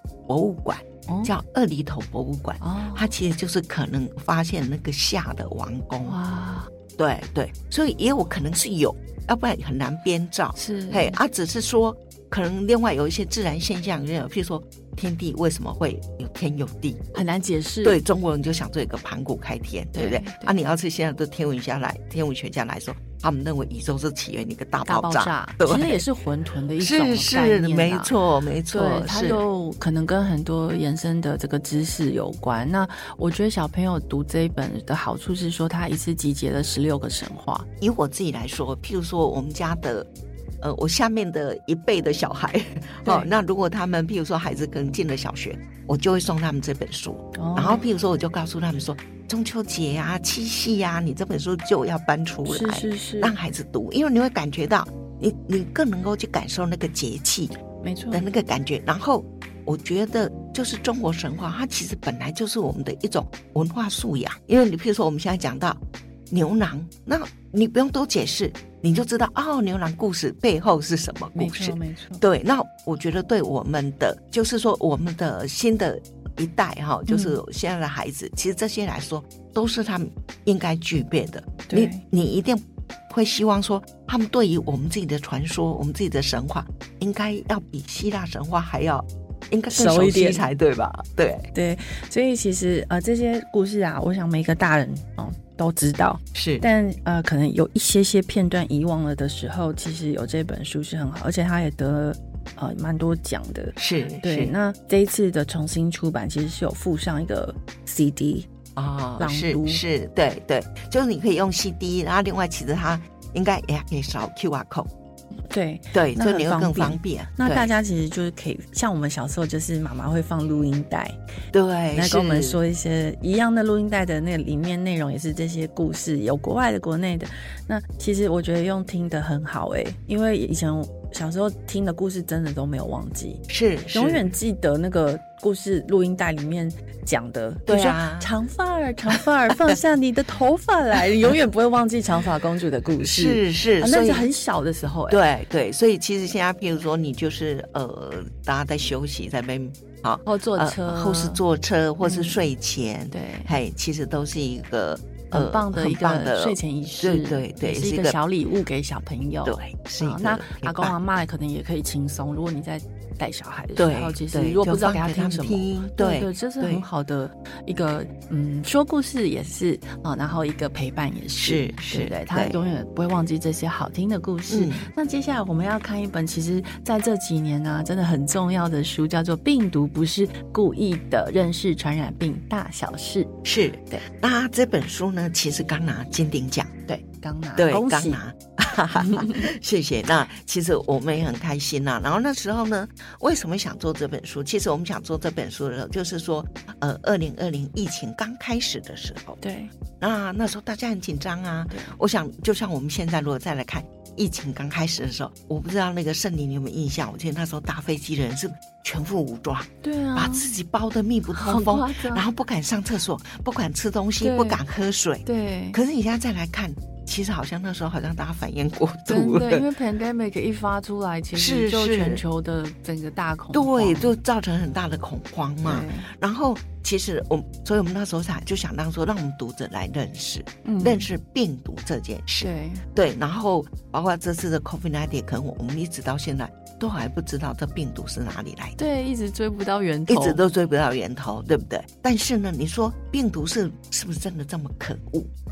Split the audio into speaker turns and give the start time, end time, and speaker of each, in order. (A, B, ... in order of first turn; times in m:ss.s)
0:00.3-0:06.2 A
0:02.6-0:03.1 B
0:06.0-0:06.7 B
0:07.0-0:17.2 A
0:10.6-0:11.2 B
0:17.1-0:18.0 B
0:17.8-0:26.0 A
0:19.9-0:20.5 B
0:24.8-0:28.1 B
0:26.8-0:29.4 A
0:28.7-0:37.7 B
0:37.8-0:40.1 A
0:40.6-0:57.6 A
0:43.0-0:43.3 B
0:47.3-0:47.8 B
0:52.4-0:53.3 B
0:57.8-0:58.2 B
0:58.1-1:31.5 A
1:11.3-1:12.2 B
1:17.1-1:17.4 B
1:21.7-1:22.0 B
1:29.7-1:30.5 B
1:31.5-1:48.5 B
1:36.3-1:36.6 A
1:43.8-1:44.5 A
1:48.8-1:54.9 A
1:49.2-1:49.8 B
1:55.5-2:01.2 B
1:55.9-1:57.7 A
2:01.5-2:02.6 A
2:01.9-2:13.4 B
2:13.5-2:14.2 A
2:13.9-2:25.2 B
2:17.6-2:18.3 A
2:23.0-2:24.3 A
2:25.1-2:38.2 A
2:30.2-2:31.4 B
2:32.0-2:32.4 B
2:33.1-2:33.5 B
2:35.3-3:03.3 B
2:39.4-2:40.9 A
2:43.8-2:46.8 A
2:51.4-2:52.6 A
2:54.5-2:54.9 A
3:03.4-3:06.7 A
3:06.9-3:08.2 B
3:07.6-3:19.4 A
3:09.0-3:09.5 B
3:19.4-3:19.7 B
3:20.0-3:39.6 A
3:21.7-3:22.0 B
3:29.8-3:30.5 B
3:31.3-3:32.2 B
3:34.2-3:34.6 B
3:35.2-3:35.8 B
3:39.1-3:44.1 B
3:41.4-3:42.2 A
3:43.5-3:58.8 A
3:45.6-3:46.1 B
3:50.6-3:51.1 B
3:52.4-3:52.8 B
3:58.8-4:00.4 B
4:00.1-4:05.3 A